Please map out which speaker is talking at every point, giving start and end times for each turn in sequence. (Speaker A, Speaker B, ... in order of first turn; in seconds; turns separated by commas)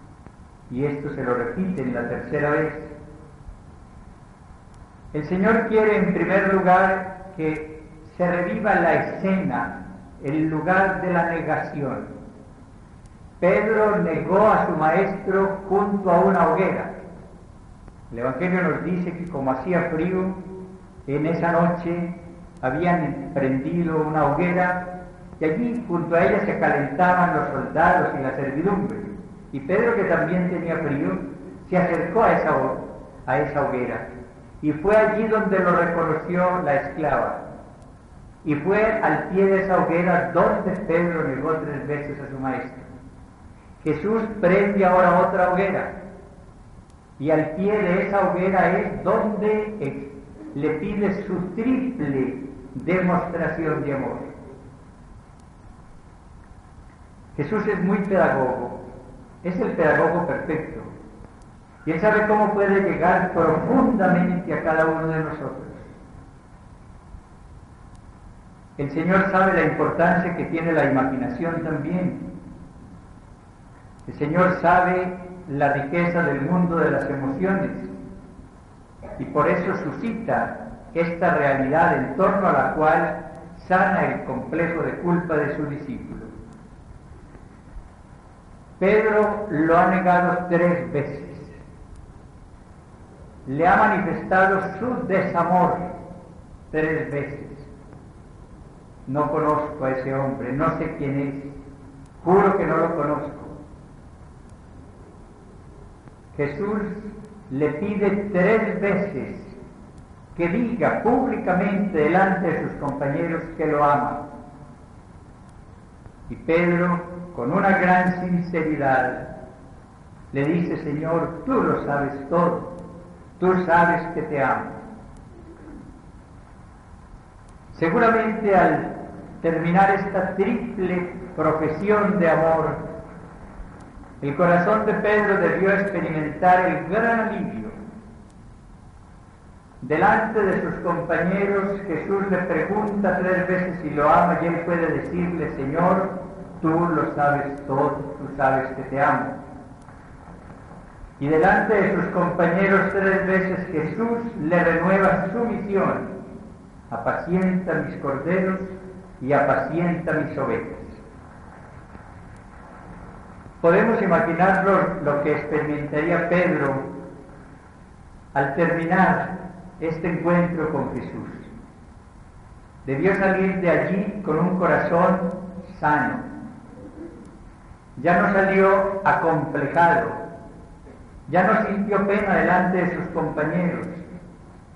Speaker A: 0.7-2.9, Speaker A: 5.1-12.1, Speaker A: 13.4-16.9, Speaker A: 18.1-20.4, Speaker A: 21.1-34.1, Speaker A: 34.6-37.4, Speaker A: 38.4-42.9, Speaker A: 43.8-46.0, Speaker A: 47.2-54.3, Speaker A: 57.4-58.9, Speaker A: 59.4-60.9, Speaker A: 61.9-65.9, Speaker A: 68.8-72.3, Speaker A: 74.1-77.9, Speaker A: 79.2-86.3, Speaker A: 88.8-91.6, Speaker A: 93.5-95.9, Speaker A: 96.7-97.7, Speaker A: 99.1-101.5, Speaker A: 102.2-103.6, Speaker A: 106.3-109.6, Speaker A: 110.3-114.3, Speaker A: 116.3-119.4, Speaker A: 120.3-122.8, Speaker A: 123.4-124.8, Speaker A: 127.7-132.9, Speaker A: 134.2-137.8, Speaker A: 139.8-149.4, Speaker A: 151.2-156.2, Speaker A: 156.9-161.0, Speaker A: 163.6-166.9, Speaker A: 168.3-171.5, Speaker A: 172.8-176.3, Speaker A: 178.0-180.2, Speaker A: 181.3-184.0